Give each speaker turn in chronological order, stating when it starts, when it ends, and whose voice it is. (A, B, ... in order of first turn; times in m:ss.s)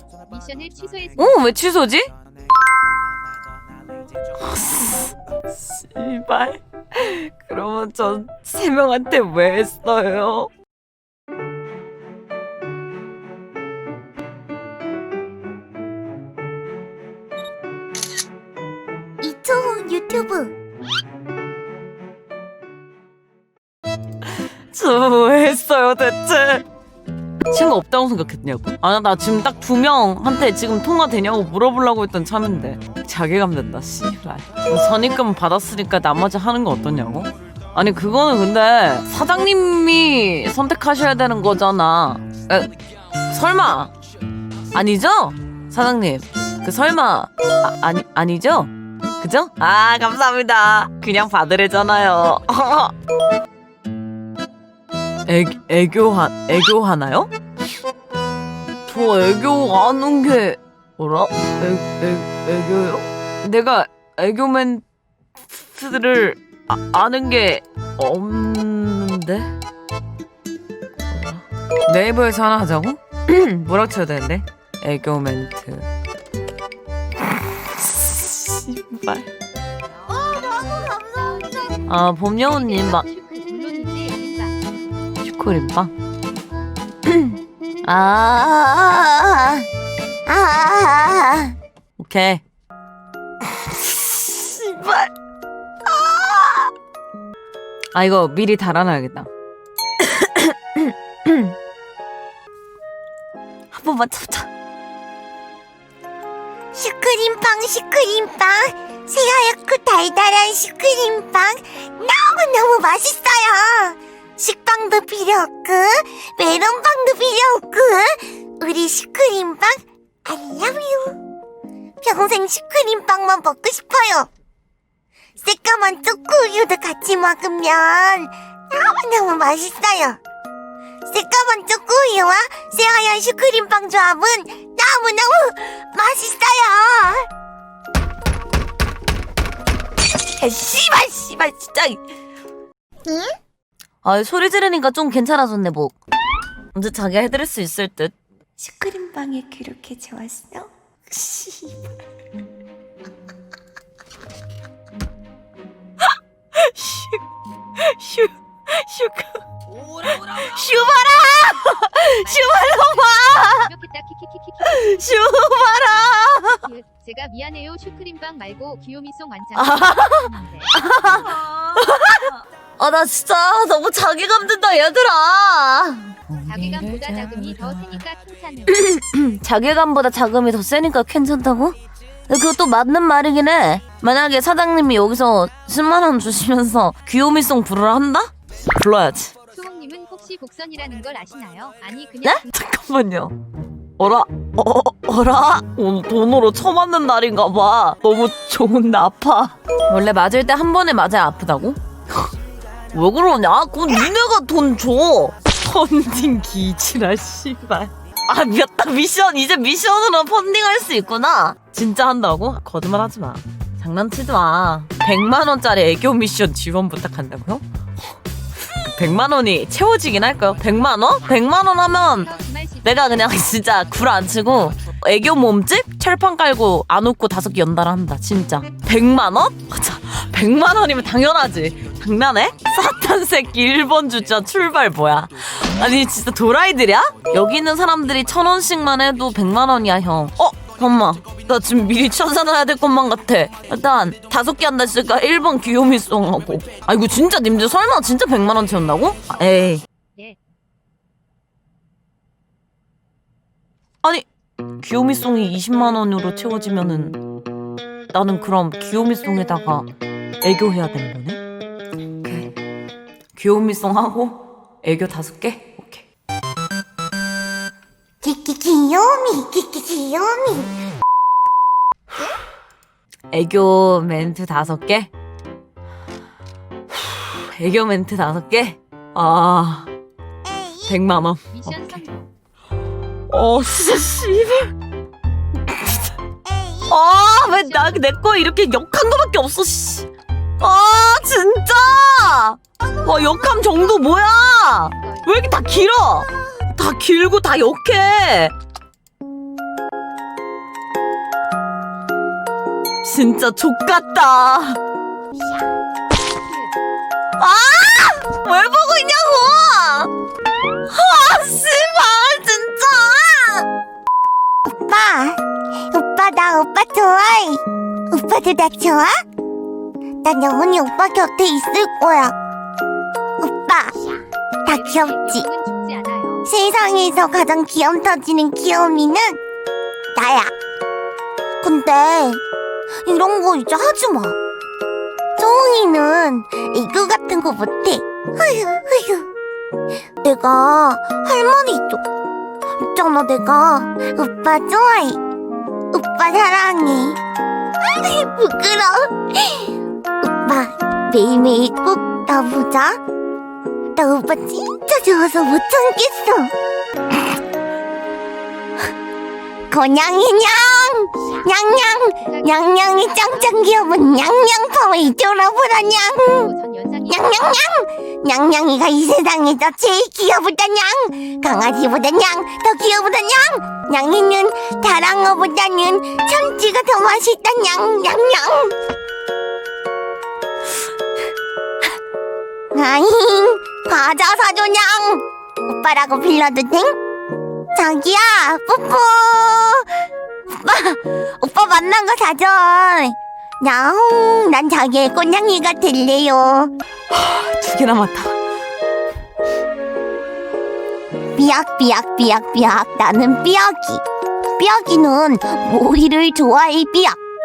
0:00.3-0:01.4 A
0:01.2-0:02.1 B
0:04.4-0:10.5 B
0:19.2-0:20.5 C
0:24.2-0:26.6 B
0:27.5-0:42.7 B
0:43.3-0:43.9 B
0:44.7-0:52.9 B
0:55.3-0:57.3 B
0:58.9-1:04.8 B
1:05.5-1:09.5 B
1:11.1-1:15.9 B
1:17.8-1:19.3 B
1:20.1-1:21.7 C
1:20.3-1:24.5 A
1:21.8-1:23.0 B
1:25.2-1:25.9 B
1:27.0-1:29.7 B
1:30.2-1:31.5 C
1:32.0-1:32.4 B
1:33.4-1:35.1 B
1:35.8-1:36.7 B
1:37.9-1:39.3 B
1:40.0-1:41.5 B
1:43.7-1:44.5 B
1:46.7-2:01.2 C
2:02.0-2:04.3 C
2:05.4-2:10.2 C
2:11.0-2:17.3 C
2:20.4-2:22.0 B
2:24.0-2:26.0 B
2:26.7-2:28.1 B
2:28.6-2:31.7 C
2:36.5-2:37.2 B
2:37.8-2:43.7 B
2:42.1-2:45.4 A
2:44.6-2:46.6 B
2:46.5-2:50.7 A
2:49.6-2:58.0 B
2:56.4-2:58.8 A
2:58.7-3:01.8 B
3:02.3-3:09.3 B
3:09.5-3:12.5 A
3:12.2-3:13.4 B
3:14.0-3:21.8 B
3:22.9-3:37.6 B
3:38.8-3:42.3 B
3:42.1-3:43.2 A
3:42.8-4:09.8 B
4:14.8-4:17.2 B
4:18.1-4:19.9 B
4:20.4-4:21.4 B
4:22.2-4:22.5 B
4:23.4-4:26.0 B
4:28.2-4:30.7 C
4:33.3-4:35.1 B
4:36.9-4:39.9 B
4:40.4-4:41.0 C
4:40.9-4:42.0 B
4:41.5-4:42.2 A
4:43.3-4:44.7 B
4:45.7-4:46.1 B
4:46.4-4:47.0 C
4:46.9-4:50.1 B
4:47.3-4:48.2 A
4:50.6-4:58.5 B
4:54.8-4:55.4 A
5:03.0-5:04.8 B
5:06.4-5:06.7 A
5:07.4-5:10.1 B
5:10.9-5:13.6 B
5:14.7-5:19.2 C
5:20.2-5:22.4 C
5:23.4-5:24.1 C
5:24.6-5:25.4 C
5:24.7-5:26.5 A
5:26.4-5:29.4 C
5:30.1-5:30.5 C
5:31.6-5:32.4 C
5:33.0-5:34.4 C
5:35.4-5:39.3 C
5:40.2-5:42.0 C
5:42.8-5:45.2 C
5:45.9-5:47.2 C
5:47.8-5:53.0 C
5:53.9-5:56.5 C
5:59.7-6:06.5 C
6:02.2-6:03.7 A
6:06.2-6:07.6 A
6:07.1-6:18.7 C
6:22.7-6:27.0 C
6:27.7-6:29.9 C
6:30.5-6:36.7 C
6:37.1-6:38.4 B
6:41.3-6:44.0 C
6:44.6-6:47.2 C